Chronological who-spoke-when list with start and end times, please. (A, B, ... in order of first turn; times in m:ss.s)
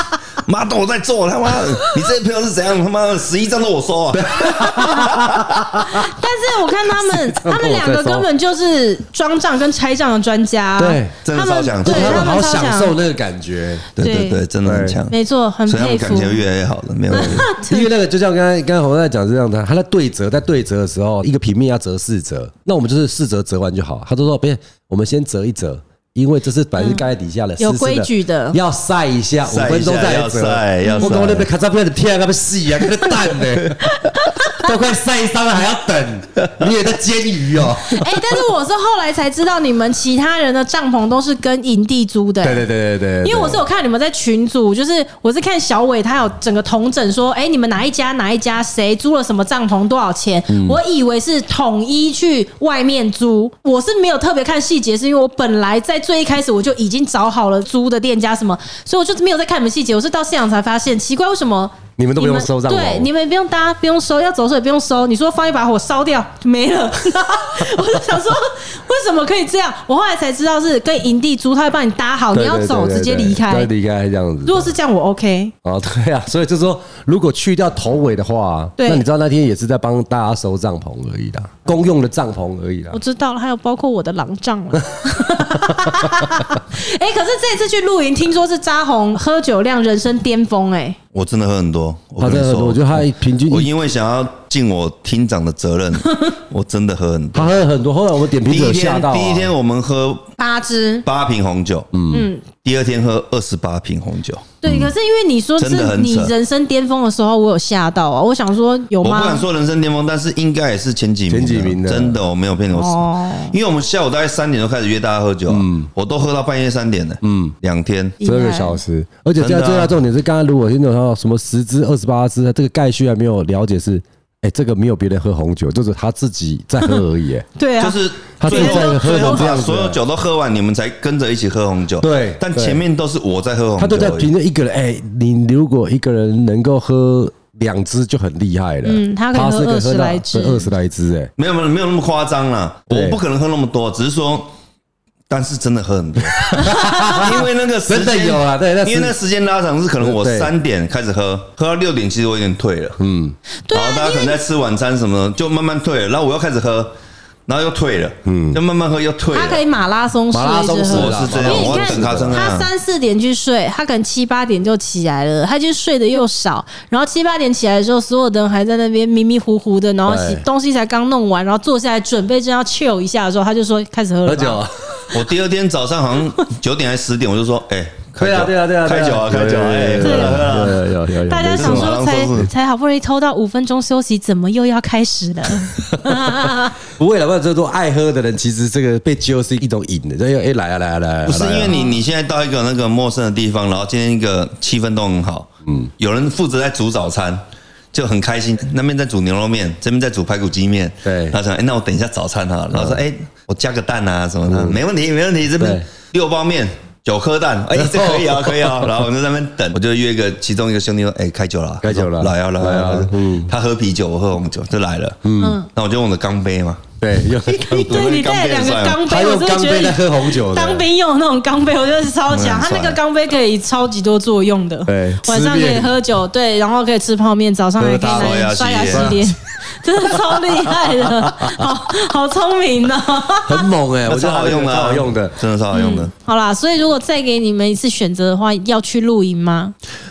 0:00.4-0:05.8 A
0:04.1-0:06.0 B
0:05.9-0:12.9 C
0:07.1-0:08.3 B
0:10.8-0:11.2 B
0:11.2-0:12.3 A
0:11.8-0:13.9 B
0:14.0-0:15.2 A
0:14.0-0:14.4 C
0:14.6-0:15.0 B
0:15.1-0:16.4 C
0:15.7-0:17.5 A
0:17.1-0:17.9 C
0:17.5-0:38.0 B
0:26.8-0:27.0 C
0:27.6-0:28.6 C
0:29.5-0:31.5 A
0:30.8-0:31.1 C
0:33.8-0:34.7 C
0:37.9-0:42.6 C
0:42.4-0:43.6 B
0:43.2-1:13.7 C
0:50.5-0:50.8 B
1:02.0-1:03.1 B
1:12.3-1:14.7 B
1:14.4-1:15.5 C
1:15.6-1:23.0 B
1:18.8-1:19.0 C
1:22.9-1:31.0 C
1:25.8-1:26.2 B
1:31.1-1:37.5 A
1:32.2-1:33.7 B
1:37.3-1:39.5 B
1:38.4-1:40.3 A
1:40.4-1:41.0 C
1:41.0-1:41.9 A
1:41.9-1:42.3 B
1:42.1-1:42.4 C
1:42.5-1:44.6 A
1:44.6-1:49.4 C
1:44.7-1:44.9 B
1:45.6-1:46.3 A
1:49.0-1:58.2 A
1:51.3-1:52.2 B
1:52.7-1:53.5 C
1:55.5-1:55.9 B
1:57.2-1:57.5 B
1:58.2-1:58.8 C
1:58.2-2:07.5 B
1:59.4-2:00.0 A
2:07.6-2:09.4 C
2:07.8-2:14.3 A
2:08.4-2:10.0 B
2:12.0-2:12.8 B
2:13.8-2:21.3 B
2:18.8-2:20.7 C
2:21.4-2:24.5 A
2:22.9-2:23.2 B
2:25.3-2:33.0 A
2:26.4-2:29.1 B
2:26.6-2:27.3 C
2:30.0-2:30.5 B
2:33.0-2:33.4 B
2:33.7-2:34.4 C
2:33.7-2:36.9 A
2:37.5-2:39.6 A
2:38.2-2:38.6 B
2:39.3-2:54.6 C
2:40.3-2:42.4 B
2:40.9-2:42.7 A
2:50.0-2:50.4 B
2:54.2-2:55.2 B
2:55.1-3:00.8 A
2:58.2-3:02.0 B
3:00.0-3:00.7 C
3:01.3-3:06.8 C
3:01.5-3:02.5 A
3:06.0-3:06.3 B
3:07.0-3:11.8 B
3:11.2-3:17.4 A
3:11.6-3:12.0 C
3:15.6-3:15.9 B
3:17.9-3:36.9 A
3:21.0-3:21.4 B
3:22.7-3:23.0 B
3:24.5-3:24.8 B
3:25.6-3:25.8 B
3:27.7-3:28.8 B
3:31.8-3:33.5 B
3:35.2-3:35.6 B
3:35.4-3:35.7 C
3:37.0-3:38.1 B
3:37.5-3:53.7 C
3:37.7-3:39.0 A
3:39.0-3:40.8 B
3:42.3-3:43.0 A
3:44.8-3:46.0 B
3:47.8-3:49.3 B
3:48.1-3:49.2 A
3:50.0-3:51.7 B
3:53.4-3:55.3 B
3:54.0-3:56.1 A
3:55.7-3:59.7 C